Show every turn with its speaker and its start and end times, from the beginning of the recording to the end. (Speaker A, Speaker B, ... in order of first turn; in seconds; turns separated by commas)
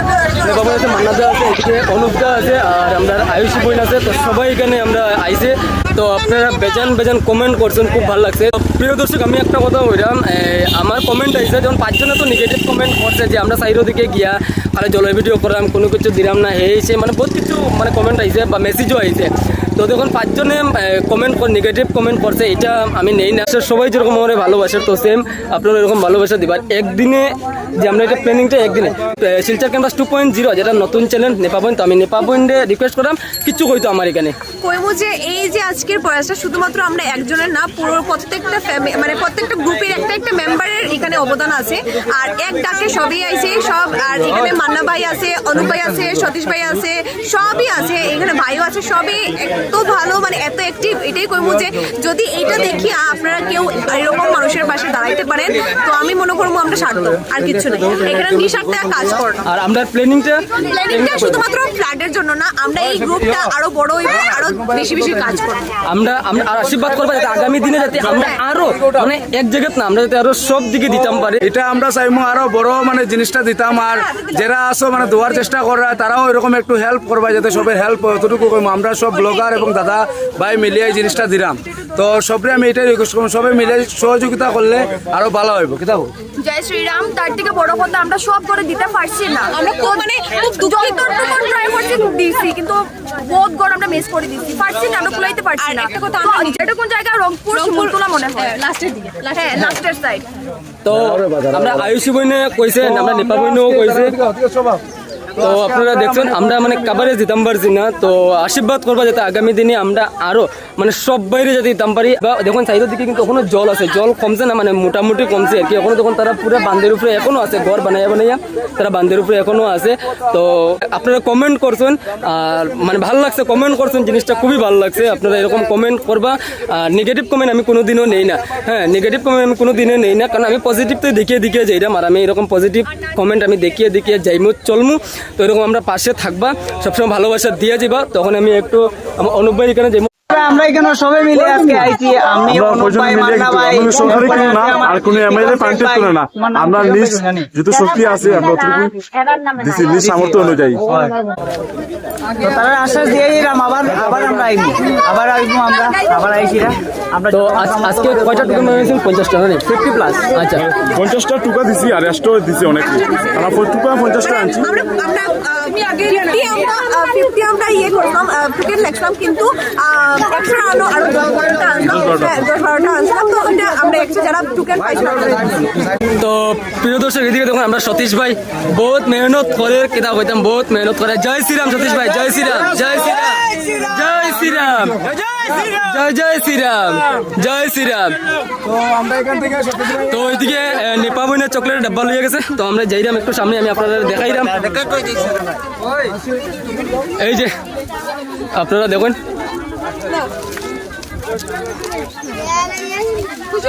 Speaker A: 0.3-34.4, Speaker B: 34.6-59.4, Speaker A: 59.5-61.4, Speaker B: 60.6-65.7, Speaker A: 65.9-71.4, Speaker C: 71.4-86.1, Speaker D: 86.4-100.2, Speaker B: 89.5-92.0, Speaker B: 95.5-96.7, Speaker B: 97.5-100.1, Speaker A: 100.8-104.2, Speaker C: 104.4-104.7, Speaker A: 105.3-140.1, Speaker E: 140.3-147.5, Speaker F: 142.5-150.8, Speaker E: 152.4-158.4, Speaker A: 157.3-160.7, Speaker F: 160.7-164.6, Speaker B: 164.2-175.6, Speaker F: 171.9-172.3, Speaker A: 176.2-188.2, Speaker A: 189.5-194.8, Speaker A: 197.2-197.5, Speaker A: 198.5-199.2